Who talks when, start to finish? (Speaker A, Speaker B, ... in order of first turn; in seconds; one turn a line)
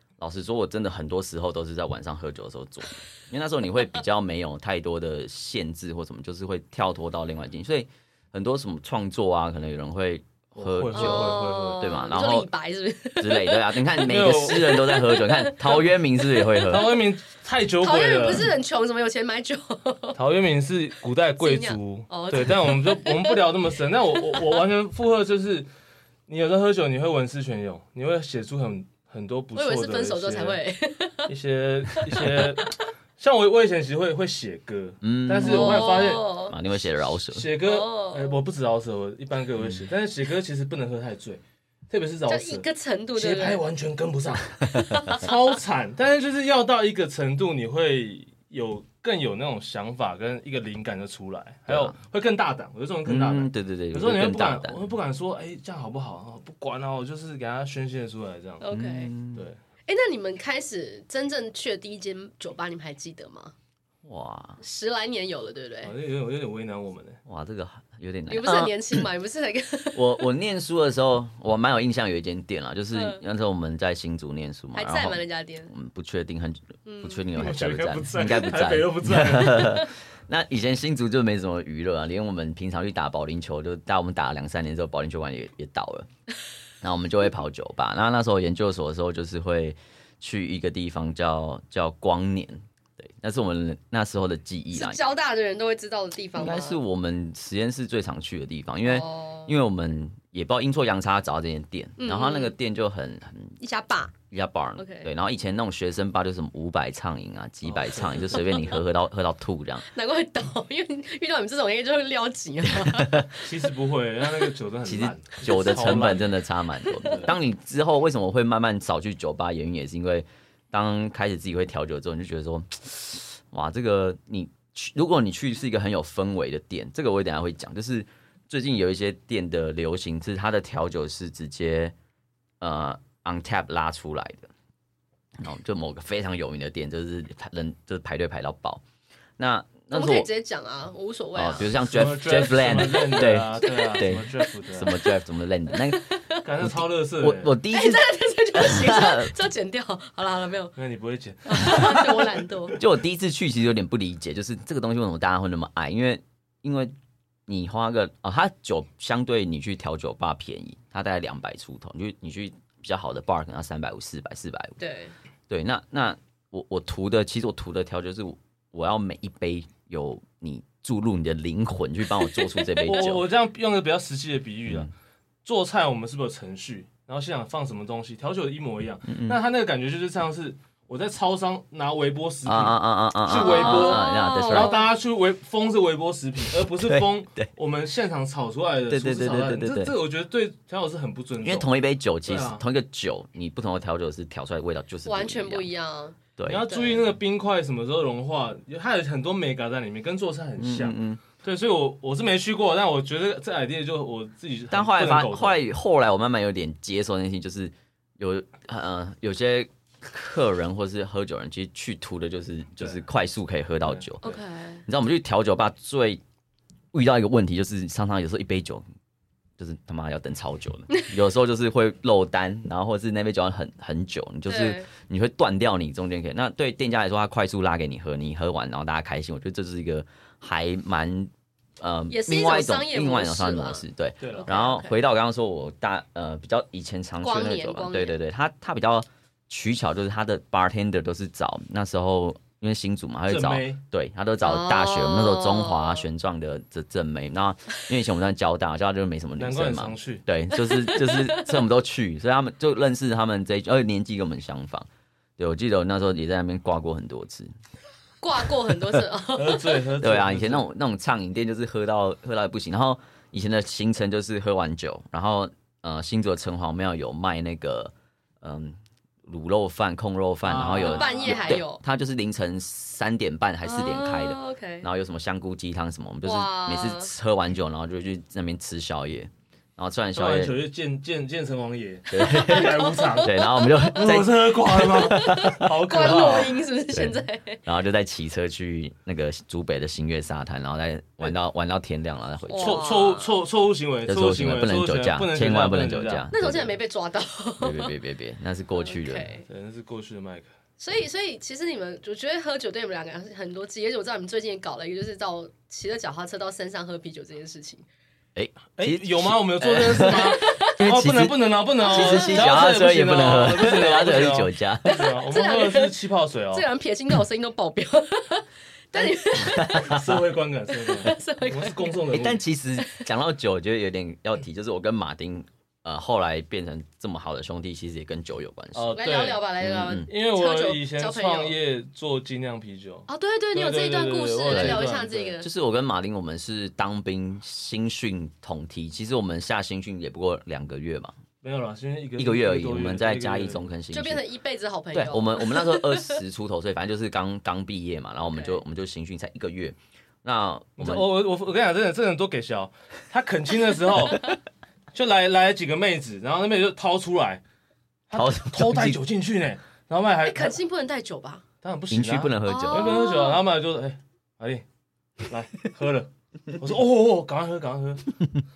Speaker A: 0.2-12.5
Speaker B: 10.6-12.0
Speaker C: 10.9-16.9
Speaker A: 13.2-16.9
Speaker B: 14.0-14.8
Speaker B: 16.7-18.5
Speaker C: 17.8-20.2
Speaker B: 20.1-25.7
Speaker C: 21.4-23.4
Speaker B: 26.3-30.6
Speaker C: 29.5-31.3
Speaker B: 31.3-36.3
Speaker C: 31.9-32.8
Speaker A: 35.0-37.5
Speaker C: 35.4-36.6
Speaker B: 37.3-58.6
Speaker C: 37.6-38.4
Speaker A: 39.6-39.9
Speaker C: 42.3-43.6
Speaker A: 44.6-45.0
Speaker C: 44.7-45.3
Speaker A: 51.7-52.0
Speaker A: 53.0-54.8
Speaker C: 58.6-59.1
Speaker A: 58.7-59.5
Speaker C: 59.9-63.5
Speaker A: 64.0-64.6
Speaker C: 64.6-65.9
Speaker B: 65.8-67.2
Speaker A: 67.2-69.1
Speaker C: 68.3-70.2
Speaker A: 70.0-86.1
Speaker C: 72.9-73.2
Speaker C: 74.7-75.7
Speaker C: 76.9-77.3
Speaker B: 77.3-79.9
Speaker A: 86.8-95.0
Speaker C: 94.7-96.8
Speaker A: 96.4-103.6
Speaker C: 98.8-99.5
Speaker C: 102.0-102.6
Speaker C: 103.6-104.1
Speaker A: 104.3-109.9
Speaker C: 104.8-105.1
Speaker B: 107.6-108.6
Speaker C: 108.3-108.7
Speaker C: 109.8-113.5
Speaker A: 112.8-113.3
Speaker B: 113.4-116.4
Speaker A: 114.8-131.9
Speaker C: 116.8-117.2
Speaker B: 117.0-117.3
Speaker A: 132.6-134.5
Speaker A: 135.4-138.8
Speaker A: 139.4-140.3
Speaker C: 139.9-141.7
Speaker A: 141.3-146.0
Speaker B: 141.8-145.0
Speaker C: 142.9-145.1
Speaker C: 145.7-146.4
Speaker B: 146.4-147.5
Speaker A: 146.6-149.3
Speaker C: 147.7-150.8
Speaker B: 150.8-152.4
Speaker C: 151.5-152.8
Speaker A: 152.8-156.9
Speaker A: 157.5-164.8
Speaker C: 164.8-165.1
Speaker A: 165.5-173.3
Speaker C: 172.2-173.1
Speaker B: 172.9-174.9
Speaker A: 174.7-174.9
Speaker B: 175.4-191.7
Speaker A: 179.1-179.4
Speaker A: 182.4-184.8
Speaker C: 183.3-184.9
Speaker A: 186.7-187.5
Speaker A: 188.9-189.9
Speaker A: 191.4-195.7
Speaker B: 192.2-192.6
Speaker C: 195.1-197.0
Speaker A: 196.4-196.7
Speaker B: 196.5-205.6
Speaker A: 200.6-201.2
Speaker A: 204.7-214.2
Speaker B: 213.8-214.4
Speaker C: 214.2-214.8
Speaker A: 214.9-216.2
Speaker A: 216.9-218.8
Speaker A: 219.6-257.5
Speaker C: 224.5-224.9
Speaker C: 232.1-235.0
Speaker B: 234.2-234.5
Speaker C: 237.2-238.2
Speaker B: 243.3-243.8
Speaker C: 244.4-246.1
Speaker B: 249.4-250.2
Speaker C: 250.5-251.6
Speaker C: 258.2-259.8
Speaker B: 259.4-260.7
Speaker A: 260.0-280.6
Speaker B: 270.4-271.6
Speaker C: 270.8-271.8
Speaker C: 273.6-274.9
Speaker C: 276.2-277.1
Speaker B: 280.1-286.6
Speaker A: 282.1-292.9
Speaker C: 282.2-284.0
Speaker C: 285.1-287.6
Speaker C: 292.5-293.4
Speaker B: 292.6-296.3
Speaker A: 294.1-296.8
Speaker C: 296.3-297.9
Speaker A: 297.6-299.3
Speaker C: 298.8-299.5
Speaker B: 299.5-300.5
Speaker C: 300.8-307.9
Speaker A: 308.4-315.0
Speaker B: 308.8-316.6
Speaker C: 310.1-310.8
Speaker C: 311.8-312.5
Speaker C: 314.8-316.0
Speaker C: 316.5-320.0
Speaker A: 319.0-320.2
Speaker B: 319.7-322.4
Speaker C: 320.7-322.0
Speaker A: 322.1-329.0
Speaker C: 322.8-323.1
Speaker B: 328.8-329.5
Speaker C: 328.9-331.6
Speaker A: 329.6-330.1
Speaker B: 330.0-335.4
Speaker C: 333.1-335.5
Speaker A: 334.5-334.8
Speaker A: 335.4-341.1
Speaker B: 341.4-343.6
Speaker A: 342.2-344.2
Speaker C: 343.9-346.2
Speaker A: 344.9-351.1
Speaker C: 348.2-348.6
Speaker B: 350.8-354.4
Speaker B: 354.9-357.4
Speaker B: 358.1-360.6
Speaker A: 358.1-359.0
Speaker C: 360.2-361.4
Speaker B: 361.6-364.6
Speaker A: 361.9-363.0
Speaker C: 362.4-363.4
Speaker B: 365.2-368.1